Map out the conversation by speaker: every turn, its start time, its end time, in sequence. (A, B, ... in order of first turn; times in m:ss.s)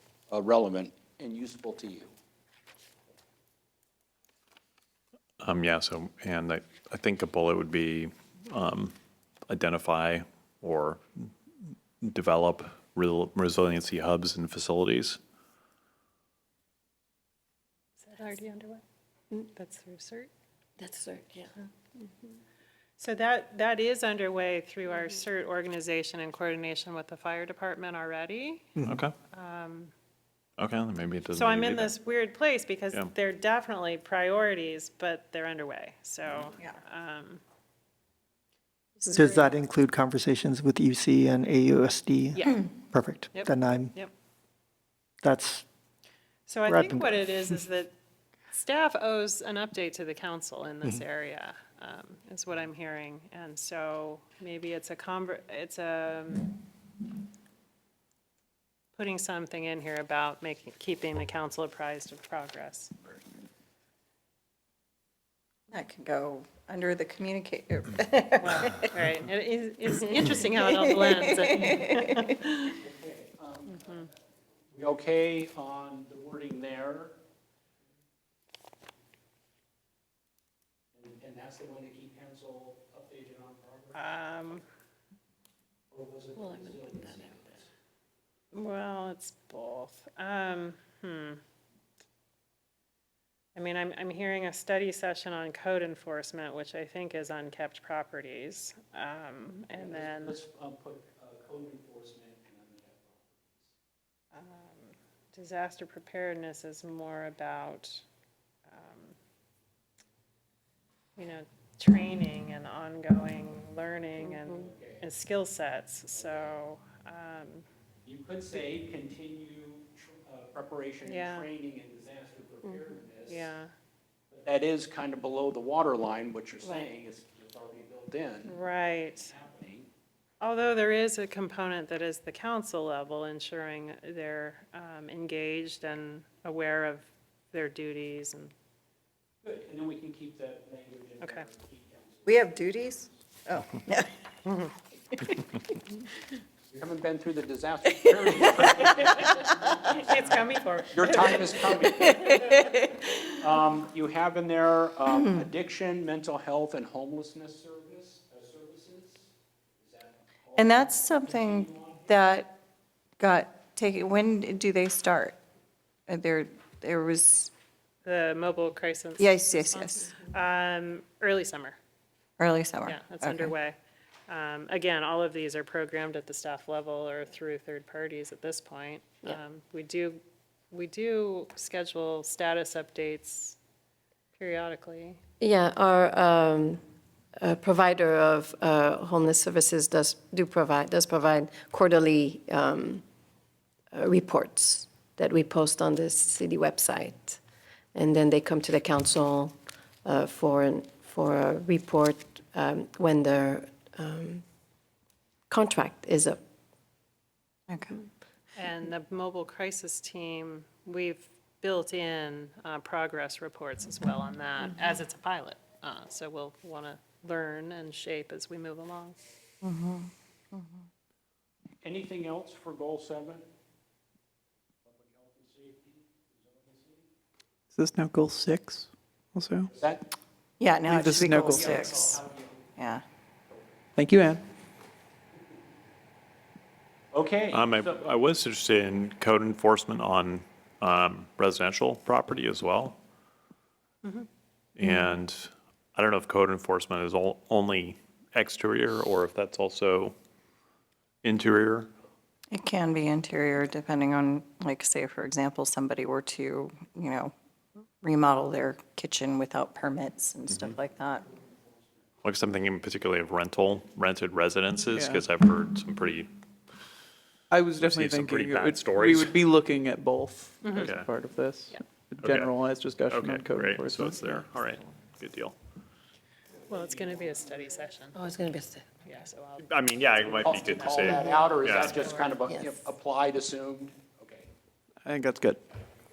0:00.3-0:02.1 A
0:05.4-0:09.0 B
0:09.5-0:11.3 B
0:12.0-0:15.2 B
0:18.0-0:18.8 C
0:19.5-0:20.3 C
0:20.8-0:21.7 D
0:23.0-0:28.8 C
0:28.8-0:29.0 E
0:28.8-0:29.1 B
0:29.3-0:29.9 C
0:30.6-0:32.0 B
0:31.3-0:37.4 C
0:39.0-0:39.6 C
0:39.1-0:44.0 E
0:42.4-0:42.7 C
0:43.3-0:44.1 C
0:45.2-0:45.7 E
0:46.5-0:47.9 C
0:46.7-0:47.6 E
0:48.5-0:56.6 C
0:59.0-1:02.9 C
1:05.7-1:09.2 F
1:08.4-1:12.8 C
1:09.9-1:11.8 F
1:12.8-1:14.1 A
1:14.7-1:17.2 A
1:20.9-1:24.0 A
1:23.9-1:24.6 C
1:25.9-1:27.7 A
1:28.5-1:31.4 C
1:33.6-1:40.4 C
1:39.8-1:43.7 A
1:44.3-1:48.0 C
1:48.7-1:49.2 C
1:51.2-1:57.6 C
1:54.2-1:54.5 D
1:54.6-1:55.0 A
1:56.1-1:56.5 A
1:58.0-2:03.5 A
2:01.1-2:01.5 C
2:03.3-2:03.7 C
2:04.3-2:08.6 A
2:08.5-2:09.3 C
2:09.1-2:09.9 A
2:10.4-2:18.5 C
2:19.4-2:23.2 A
2:21.2-2:21.5 C
2:22.3-2:24.1 F
2:24.4-2:24.7 C
2:26.7-2:32.6 A
2:28.9-2:32.6 C
2:31.9-2:32.9 F
2:33.3-2:42.1 A
2:35.1-2:35.5 F
2:40.6-2:42.6 F
2:43.2-2:45.4 F
2:46.1-2:47.5 F
2:48.0-2:51.8 C
2:49.2-2:50.2 F
2:52.4-2:53.5 F
2:52.9-2:53.8 C
2:54.3-3:03.6 C
3:04.4-3:05.2 C
3:05.4-3:06.8 D
3:07.4-3:13.0 D
3:13.9-3:17.4 D
3:17.9-3:24.5 D
3:25.5-3:26.4 D
3:27.7-3:28.0 F
3:28.6-3:39.2 C
3:39.6-3:40.8 F
3:41.8-3:43.5 A
3:44.8-3:47.0 A
3:47.7-3:49.7 G
3:49.7-3:50.1 A
3:50.6-3:52.2 F
3:50.9-3:51.5 G
3:51.2-3:52.7 A
3:52.8-3:53.0 F
3:54.0-3:54.4 G
3:57.1-3:58.0 A
3:57.5-4:03.0 B
4:04.8-4:10.2 B
4:04.8-4:05.1 F
4:11.2-4:11.9 B
4:12.5-4:17.3 F
4:18.0-4:21.2 F
4:20.5-4:20.8 B
4:22.2-4:26.3 B
4:24.9-4:25.2 G
4:27.5-4:34.4 G
4:27.7-4:29.4 B
4:30.6-4:31.0 C
4:30.8-4:31.1 B
4:32.2-4:35.6 B
4:36.7-4:38.2 C
4:36.7-4:37.7 A
4:38.2-4:38.9 D
4:39.0-4:42.4 C
4:39.6-4:42.1 B
4:40.3-4:44.5 A
4:41.0-4:41.6 D
4:42.5-4:42.8 D
4:45.0-4:45.6 G